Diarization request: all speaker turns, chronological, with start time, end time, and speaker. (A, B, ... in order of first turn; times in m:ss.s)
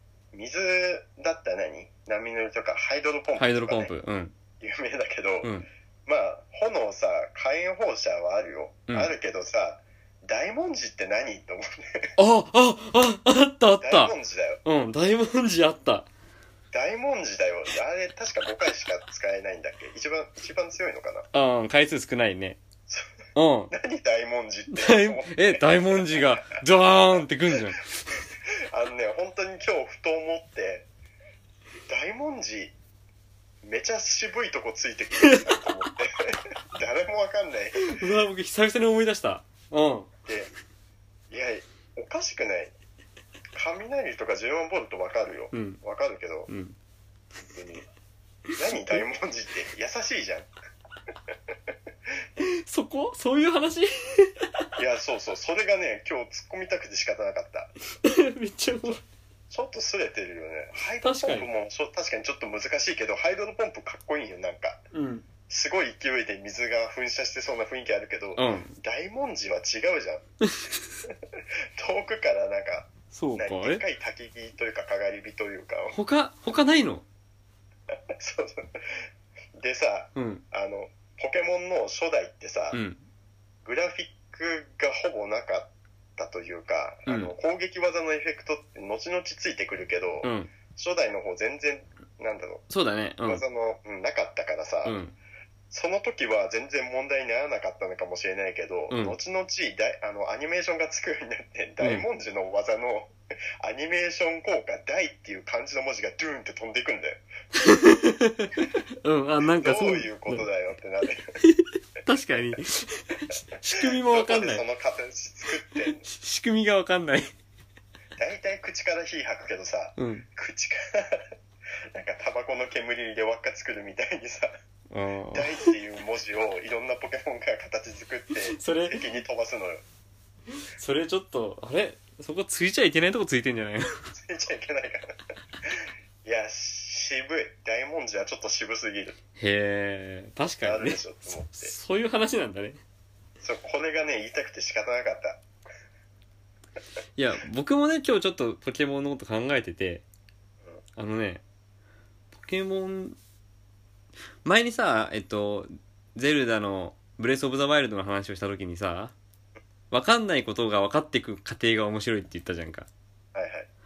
0:00.3-0:04.0 A
0:03.4-0:04.3 B
0:04.6-0:05.5 A
0:05.4-0:05.7 B
0:06.1-0:12.1 A
0:12.2-0:16.1 B
0:13.8-0:14.6 A
0:16.7-0:21.3 A
0:21.3-0:22.6 B
0:23.4-0:23.7 B
0:23.7-0:26.4 A
0:24.7-0:27.9 B
0:28.7-0:30.9 A
0:31.9-0:32.7 A
0:33.6-0:38.0 A
0:35.2-0:35.9 B
0:37.8-0:40.1 B
0:41.3-0:42.7 A
0:43.5-0:46.5 A
0:45.5-0:45.8 B
0:46.5-0:46.8 B
0:47.4-0:47.9 A
0:48.6-0:50.5 A
0:51.3-0:51.7 A
0:52.4-0:54.4 B
0:54.8-0:57.7 A
0:58.0-0:59.0 B
0:59.5-1:04.8 A
1:01.0-1:01.5 B
1:04.9-1:05.2 B
1:05.5-1:10.2 A
1:08.4-1:08.8 B
1:11.0-1:16.0 A
1:13.1-1:13.8 B
1:15.9-1:17.0 B
1:18.1-1:19.0 A
1:19.6-1:22.8 A
1:20.2-1:20.4 B
1:22.7-1:23.0 B
1:23.6-1:32.6 A
1:27.1-1:27.3 B
1:30.2-1:30.5 B
1:32.7-1:33.4 B
1:33.2-1:35.0 A
1:34.8-1:35.2 B
1:35.7-1:47.2 A
1:38.9-1:39.2 B
1:41.8-1:42.0 B
1:47.6-1:50.4 B
1:49.6-1:51.3 A
1:51.4-1:54.6 B
1:53.8-1:56.1 A
1:56.0-1:57.3 B
1:58.2-2:01.3 A
2:00.0-2:00.3 B
2:01.9-2:04.5 A
2:04.9-2:05.7 B
2:05.3-2:09.8 A
2:08.5-2:09.1 B
2:10.7-2:14.0 B
2:14.1-2:19.2 A
2:19.4-2:22.8 B
2:20.6-2:21.7 A
2:23.4-2:25.4 A
2:27.2-2:30.0 B
2:31.0-2:31.4 B
2:32.3-2:33.2 B
2:34.4-2:39.1 B
2:39.9-2:42.9 B
2:43.3-2:43.7 A